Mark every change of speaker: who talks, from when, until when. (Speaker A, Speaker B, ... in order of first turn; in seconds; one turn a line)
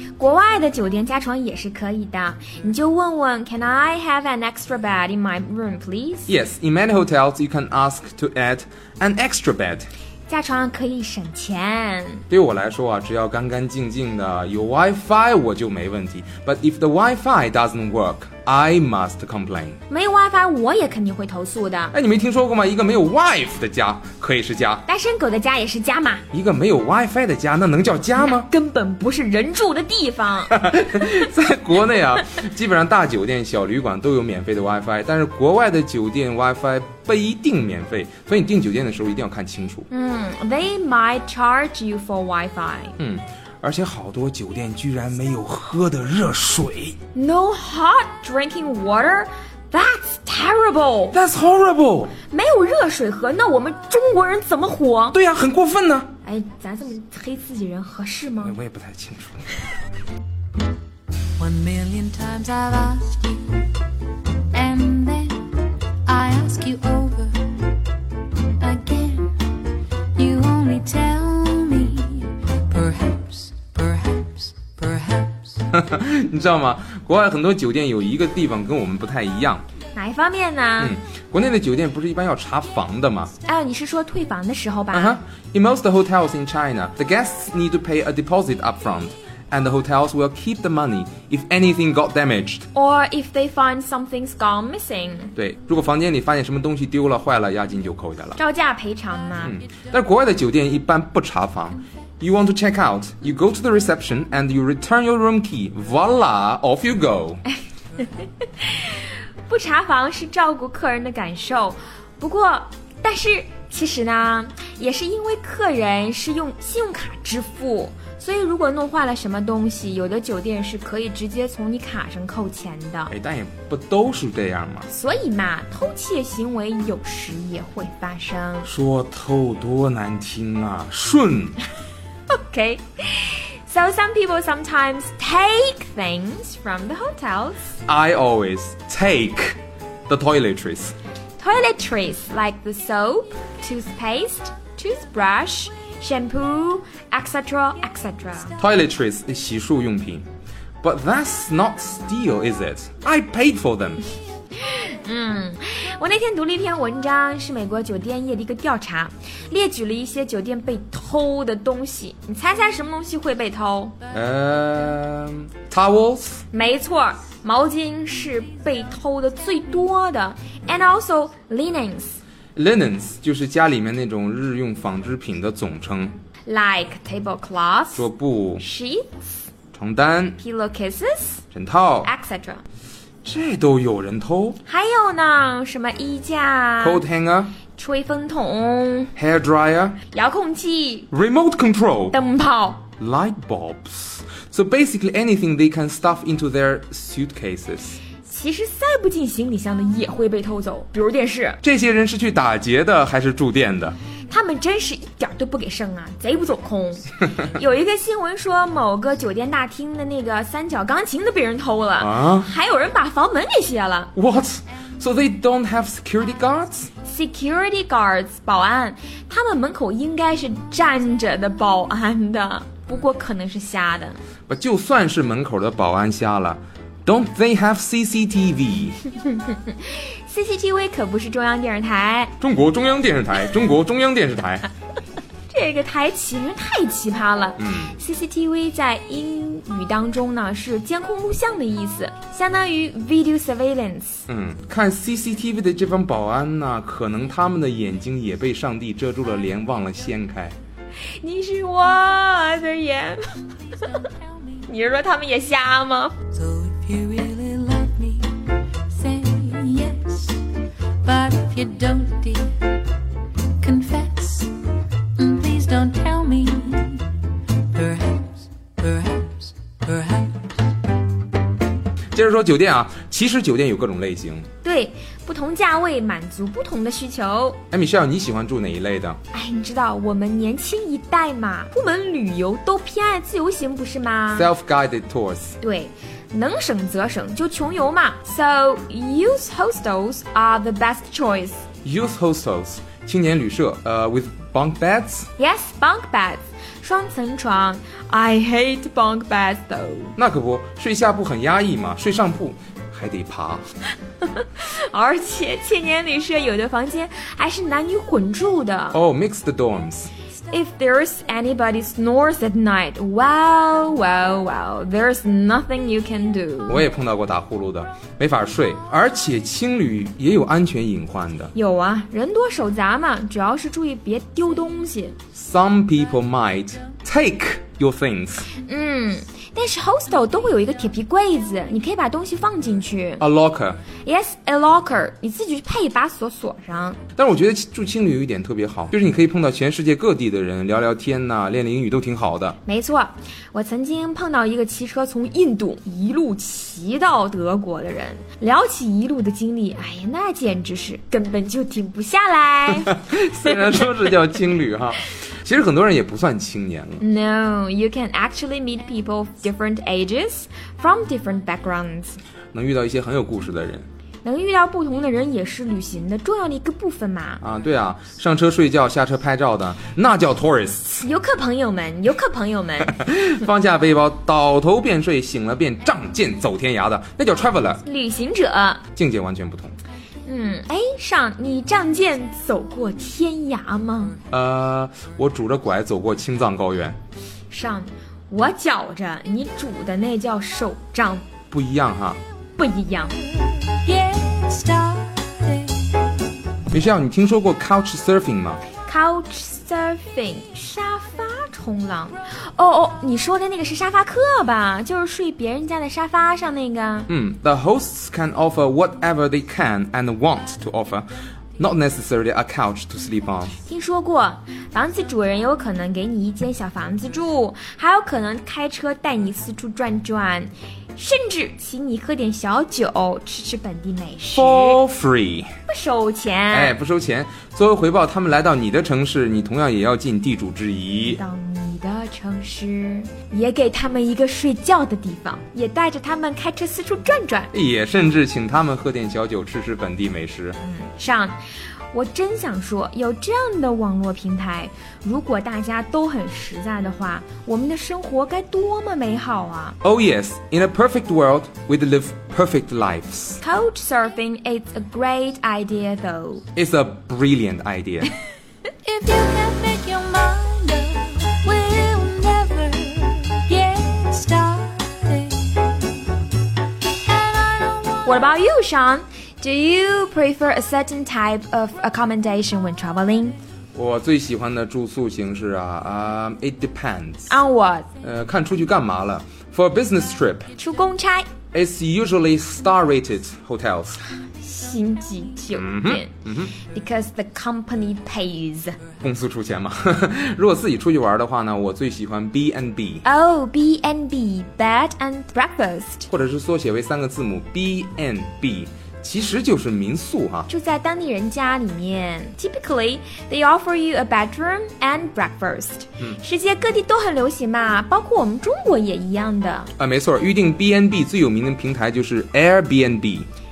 Speaker A: 0.2-6.3
Speaker B: 6.3-9.9
Speaker A: 10.3-12.2
Speaker B: 12.3-19.8
Speaker A: 19.9-21.9
Speaker B: 21.9-24.8
Speaker A: 24.9-26.2
Speaker B: 26.3-28.5
Speaker A: 28.2-30.5
Speaker B: 30.5-39.9
Speaker A: 39.9-43.0
Speaker B: 43.0-47.0
Speaker A: 47.1-51.2
Speaker B: 51.1-52.1
Speaker A: 52.3-55.2
Speaker B: 55.1-56.1
Speaker A: 56.2-58.5
Speaker B: 58.4-59.4
Speaker C: 61.4-63.6
Speaker C: 64.5-67.5
Speaker C: 68.6-69.3
Speaker C: 70.2-75.6
Speaker B: 75.7-79.6
Speaker A: 79.9-81.0
Speaker B: 80.8-83.3
Speaker A: 83.4-85.2
Speaker B: 84.9-92.7
Speaker A: 92.7-95.3
Speaker B: 95.3-98.4
Speaker A: 98.4-99.5
Speaker B: 99.4-107.4
Speaker A: 108.0-123.1
Speaker B: 123.1-124.9
Speaker A: 124.9-128.7
Speaker B: 128.6-131.6
Speaker A: 132.3-137.7
Speaker B: 137.9-140.9
Speaker A: 141.4-148.6
Speaker B: 148.6-150.2
Speaker B: 150.8-154.0
Speaker A: 154.6-163.9
Speaker B: 164.1-166.4
Speaker A: 166.5-172.2
Speaker B: 172.6-176.2
Speaker A: 176.5-178.1
Speaker B: 177.9-178.6
Speaker A: 178.6-179.1
Speaker B: 179.7-180.4
Speaker A: 180.4-181.4
Speaker B: 181.5-182.1
Speaker A: 182.0-182.6
Speaker B: 183.2-184.6
Speaker A: 184.6-187.0
Speaker B: 186.8-187.6
Speaker A: 187.7-189.1
Speaker B: 189.2-190.0
Speaker A: 190.1-191.1
Speaker B: 191.1-192.2
Speaker A: 192.1-192.8
Speaker B: 193.0-198.0
Speaker A: 198.2-201.6
Speaker B: 201.6-204.0
Speaker A: 204.3-214.1
Speaker B: 212.0-212.5
Speaker B: 214.2-216.9
Speaker A: 217.0-224.2
Speaker B: 224.5-229.0
Speaker A: 229.1-232.3
Speaker B: 232.4-234.7
Speaker A: 235.5-244.2
Speaker B: 237.6-237.9
Speaker B: 244.3-250.6
Speaker A: 251.2-253.8
Speaker A: 254.7-256.1
Speaker C: 256.3-258.4
Speaker C: 258.9-260.4
Speaker C: 261.0-262.7
Speaker C: 263.6-264.5
Speaker C: 265.2-267.1
Speaker C: 267.7-270.4
Speaker B: 272.1-274.5
Speaker A: 274.6-277.6
Speaker B: 277.7-279.2
Speaker A: 279.3-284.5
Speaker B: 284.4-285.6
Speaker A: 285.6-291.6
Speaker B: 291.8-295.3
Speaker A: 295.4-300.1
Speaker B: 300.1-303.6
Speaker A: 304.2-309.0
Speaker B: 308.9-310.1
Speaker A: 310.5-316.8
Speaker B: 316.7-321.5
Speaker A: 321.5-325.1
Speaker B: 325.3-328.5
Speaker A: 328.5-333.2
Speaker B: 333.2-333.8
Speaker A: 334.0-337.0
Speaker B: 337.2-342.6
Speaker A: 342.6-353.9
Speaker B: 352.8-357.0
Speaker A: 357.0-362.2
Speaker B: 362.5-363.9
Speaker A: 364.2-367.4
Speaker B: 367.4-371.1
Speaker A: 371.0-373.0
Speaker B: 372.9-377.8
Speaker A: 377.8-378.8
Speaker B: 378.9-379.8
Speaker A: 380.2-384.2
Speaker B: 384.3-387.0
Speaker A: 387.5-391.3
Speaker B: 391.5-392.2
Speaker A: 392.6-393.3
Speaker C: 393.8-396.2
Speaker B: 396.7-398.6
Speaker A: 398.8-407.1
Speaker B: 407.1-413.6
Speaker A: 413.6-424.8
Speaker B: 424.3-425.5
Speaker A: 425.7-426.8
Speaker B: 426.5-431.2
Speaker A: 431.0-437.5
Speaker B: 437.5-440.6
Speaker A: 440.6-441.4
Speaker A: 441.9-449.8
Speaker B: 449.8-453.4
Speaker A: 453.4-456.4
Speaker B: 456.5-458.1
Speaker C: 458.8-465.9
Speaker C: 467.1-468.3
Speaker A: 468.0-473.4
Speaker B: 473.7-477.4
Speaker A: 477.3-477.9
Speaker B: 478.0-480.5
Speaker A: 480.6-481.3
Speaker B: 481.5-484.0
Speaker A: 484.3-488.8
Speaker B: 485.5-486.5
Speaker B: 489.0-493.0
Speaker A: 493.0-496.1
Speaker B: 496.1-500.5
Speaker A: 500.5-509.7
Speaker B: 509.8-513.3